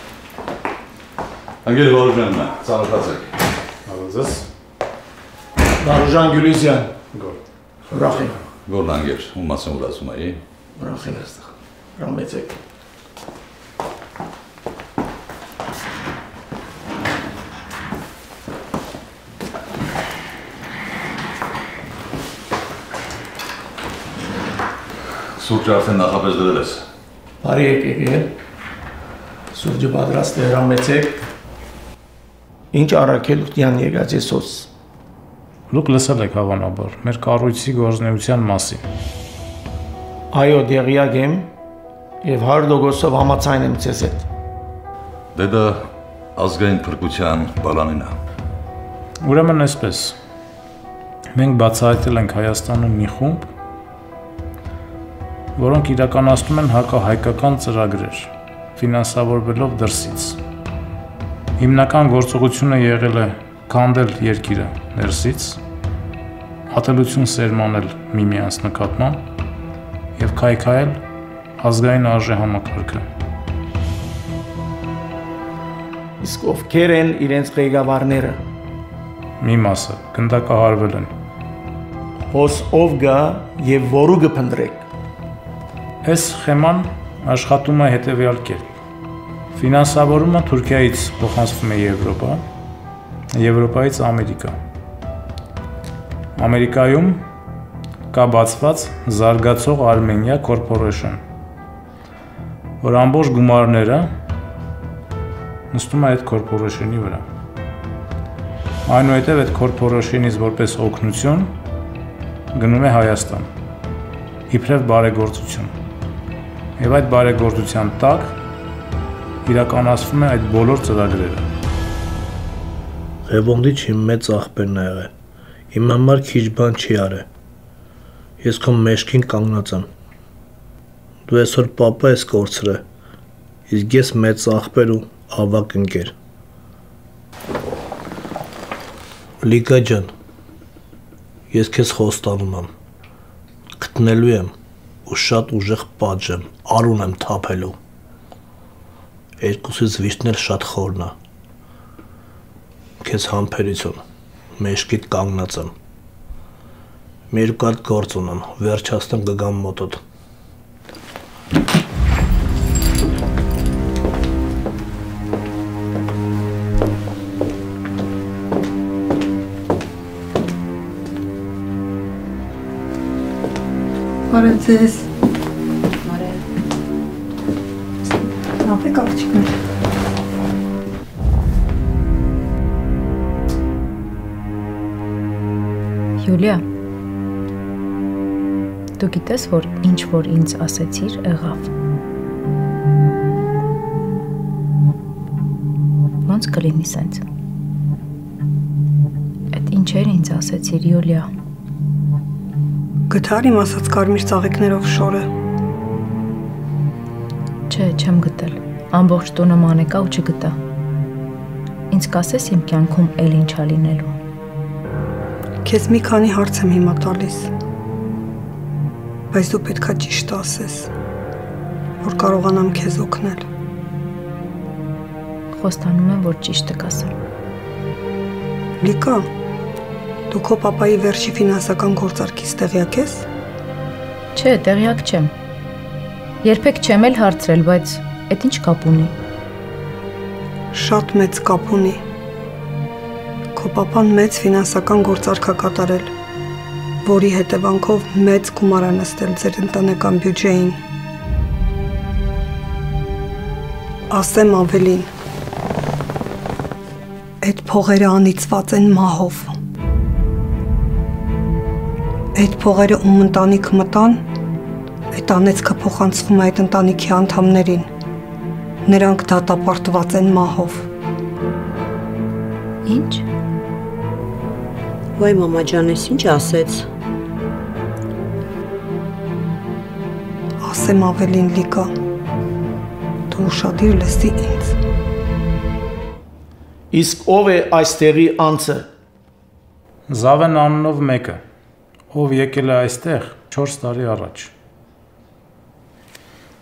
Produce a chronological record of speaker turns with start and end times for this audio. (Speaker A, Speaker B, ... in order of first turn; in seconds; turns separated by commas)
Speaker A: 1.6-3.3, Speaker B: 3.9-4.5, Speaker C: 5.8-6.9, Speaker B: 7.1-7.4, Speaker C: 7.9-8.3, Speaker A: 8.7-10.4, Speaker C: 10.8-11.4, Speaker C: 12.0-12.5, Speaker A: 25.4-26.8, Speaker C: 27.4-28.3, Speaker C: 29.5-31.2, Speaker C: 32.7-34.7, Speaker B: 35.7-38.8, Speaker C: 40.3-41.5, Speaker C: 42.2-44.3, Speaker A: 45.4-48.1, Speaker B: 49.2-50.2, Speaker B: 51.3-53.5, Speaker B: 55.6-60.4, Speaker B: 61.6-65.6, Speaker B: 66.7-69.3, Speaker B: 70.2-71.0, Speaker B: 71.6-73.1, Speaker C: 76.2-78.4, Speaker B: 79.4-81.1, Speaker C: 82.3-84.9, Speaker B: 86.0-88.8, Speaker B: 89.5-92.5, Speaker B: 93.3-94.6, Speaker B: 96.4-97.2, Speaker B: 98.1-101.2, Speaker B: 102.8-104.1, Speaker B: 105.7-107.2, Speaker B: 108.9-111.5, Speaker B: 112.5-113.5, Speaker B: 114.5-115.7, Speaker B: 116.8-118.4, Speaker B: 119.5-121.5, Speaker D: 123.3-125.1, Speaker D: 125.7-127.3, Speaker D: 128.4-129.9, Speaker D: 131.3-132.8, Speaker D: 133.7-136.1, Speaker D: 139.4-140.1, Speaker D: 141.5-142.7, Speaker D: 143.8-144.5, Speaker D: 145.1-147.8, Speaker D: 149.4-151.2, Speaker D: 153.0-154.0, Speaker D: 154.6-155.7, Speaker D: 157.3-160.0, Speaker E: 174.3-175.1, Speaker F: 176.1-176.3, Speaker E: 178.6-179.5, Speaker G: 186.2-186.6, Speaker G: 189.0-191.7, Speaker G: 196.3-197.2, Speaker G: 199.5-201.3, Speaker E: 203.1-205.3, Speaker G: 207.7-210.6, Speaker G: 211.9-214.1, Speaker E: 215.7-217.5, Speaker E: 219.3-220.9, Speaker E: 222.0-223.5, Speaker G: 225.5-227.1, Speaker E: 228.8-229.3, Speaker E: 230.3-233.2, Speaker G: 234.3-235.3, Speaker G: 236.4-239.2, Speaker E: 240.7-242.0, Speaker E: 243.6-246.1, Speaker E: 247.0-250.8, Speaker E: 254.1-255.1, Speaker E: 257.4-259.6, Speaker E: 262.4-264.2, Speaker E: 265.1-267.9, Speaker E: 268.9-270.9, Speaker G: 272.9-273.2, Speaker F: 275.2-276.9, Speaker E: 280.6-281.9, Speaker E: 283.3-284.8, Speaker C: 286.9-288.9, Speaker B: 290.1-291.4, Speaker B: 292.1-294.5